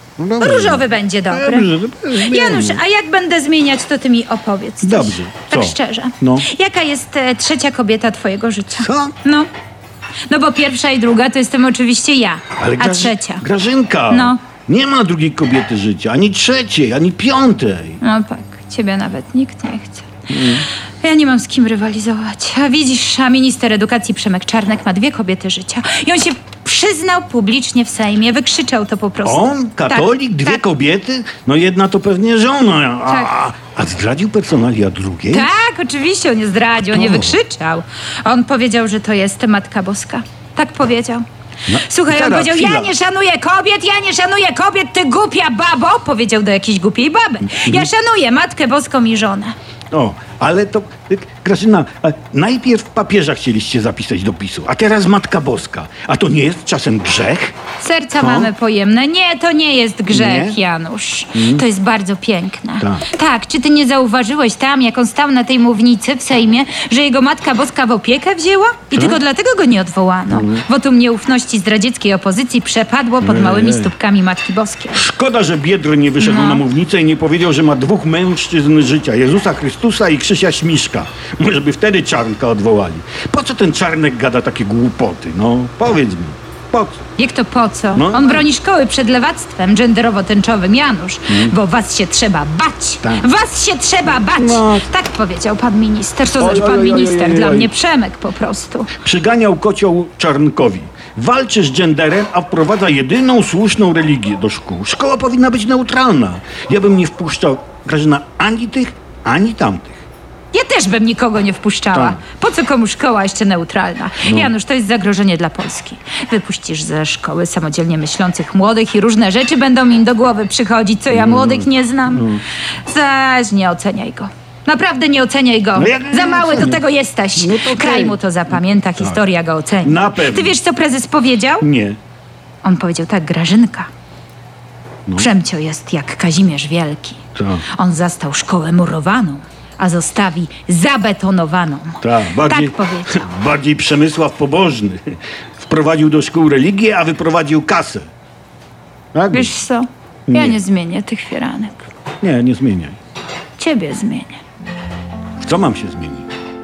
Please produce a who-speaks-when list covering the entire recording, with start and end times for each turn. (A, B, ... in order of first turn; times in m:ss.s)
0:00.2-0:02.8 A
0:00.4-0:09.5 B
0:04.8-0:06.5 A
0:08.7-0:09.2 A
0:10.3-0:13.4 B
0:12.6-0:18.0 A
0:14.1-0:14.4 B
0:18.0-0:30.6 B
0:20.3-0:20.7 A
0:29.2-0:35.5 A
0:33.0-0:33.4 B
0:35.3-0:49.6 B
0:36.9-0:37.4 A
0:41.7-0:42.9 A
0:47.5-0:47.9 A
0:49.9-0:57.6 A
0:57.8-1:15.0 B
0:58.2-0:58.5 A
1:00.1-1:00.6 A
1:01.3-1:01.6 A
1:02.8-1:03.0 A
1:08.9-1:09.2 A
1:10.3-1:10.6 A
1:13.2-1:13.9 A
1:14.9-1:27.0 A
1:16.2-1:16.6 B
1:27.2-1:38.9 B
1:27.9-1:28.5 A
1:31.3-1:31.6 A
1:33.0-1:33.3 A
1:34.1-1:34.9 A
1:36.4-1:37.7 A
1:39.0-1:50.0 A
1:50.5-2:11.7 B
1:51.9-1:52.2 A
1:54.2-1:54.5 A
2:01.1-2:02.4 A
2:05.8-2:06.8 A
2:07.4-2:08.2 A
2:09.8-2:10.6 A
2:11.6-2:12.0 A
2:12.6-2:13.9 B
2:15.2-2:23.3 B
2:17.4-2:17.7 A
2:22.0-2:28.1 A
2:29.1-2:29.6 A
2:29.3-2:31.9 B
2:30.3-2:30.6 A
2:32.2-2:33.0 A
2:33.6-2:34.4 B
2:35.4-2:36.3 A